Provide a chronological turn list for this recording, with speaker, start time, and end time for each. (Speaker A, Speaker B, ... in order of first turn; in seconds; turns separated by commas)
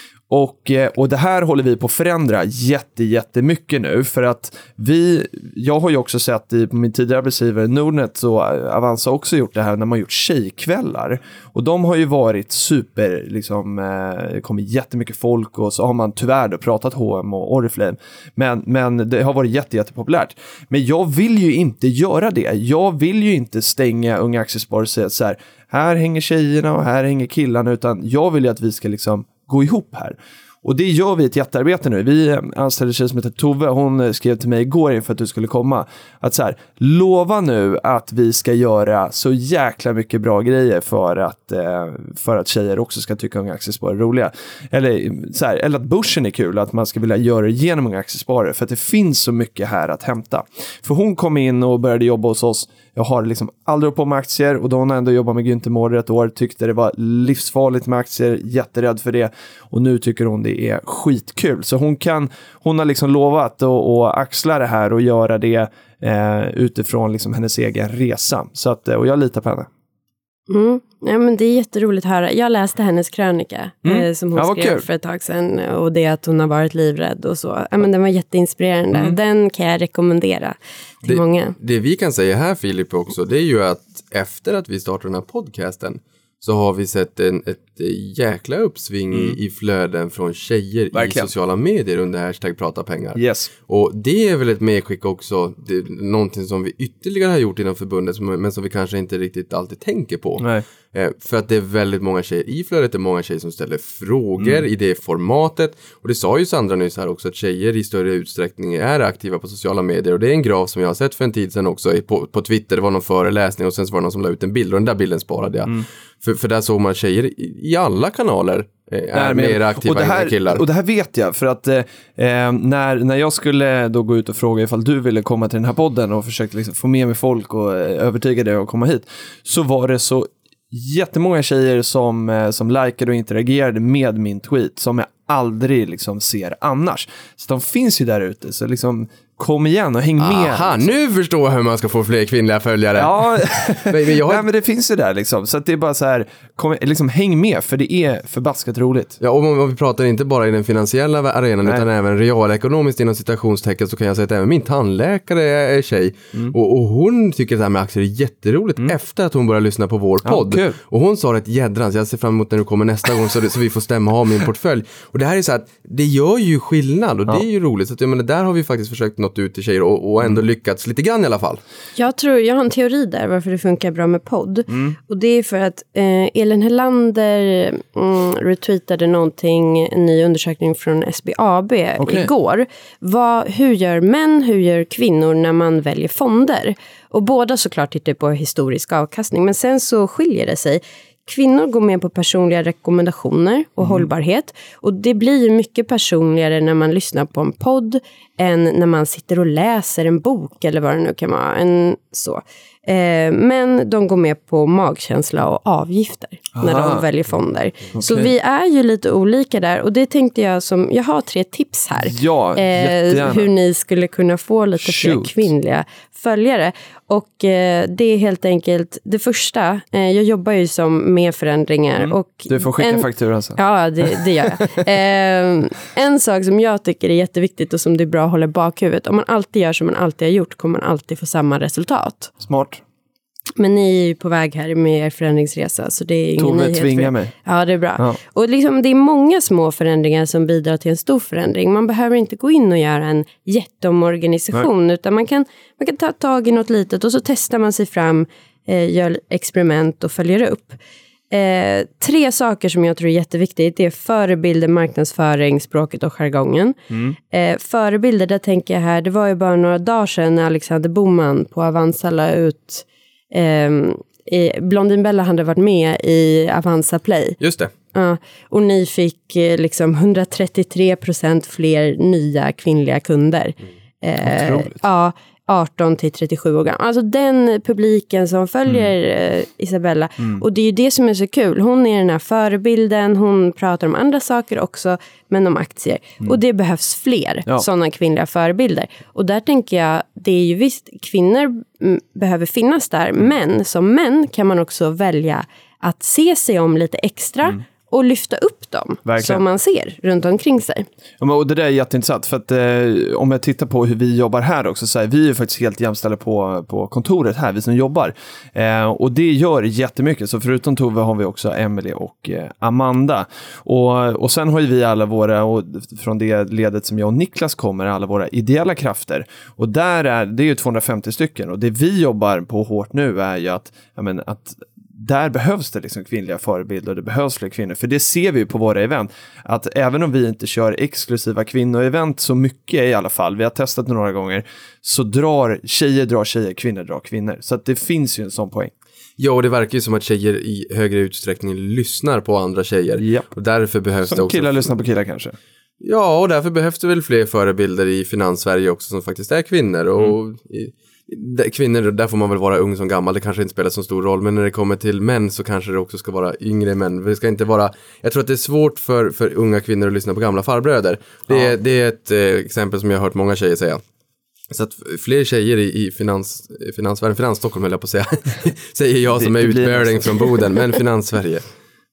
Speaker A: 0.3-69.7, Speaker B: 70.5-81.5, Speaker A: 73.8-74.8, Speaker C: 81.0-120.6, Speaker A: 89.1-89.4, Speaker A: 90.9-91.3, Speaker A: 93.1-93.5, Speaker A: 119.1-140.8, Speaker C: 140.2-144.4, Speaker A: 142.9-149.2, Speaker C: 149.2-171.6, Speaker A: 160.2-160.8, Speaker B: 171.9-232.3, Speaker A: 174.7-174.9, Speaker A: 182.0-182.3, Speaker A: 206.5-207.0, Speaker A: 207.9-208.3, Speaker A: 212.0-213.5, Speaker A: 214.8-215.5, Speaker A: 221.9-224.2, Speaker A: 232.4-232.8, Speaker B: 233.6-250.8, Speaker A: 236.4-237.3, Speaker B: 251.3-256.8, Speaker B: 257.3-267.4, Speaker C: 267.4-267.7, Speaker B: 267.9-300.9, Speaker A: 274.2-274.8, Speaker A: 299.0-299.4, Speaker A: 301.2-338.7, Speaker C: 339.2-344.7, Speaker A: 343.0-343.3, Speaker A: 344.1-345.4, Speaker C: 345.8-363.8, Speaker A: 361.3-361.5, Speaker C: 364.5-371.4, Speaker A: 369.2-370.5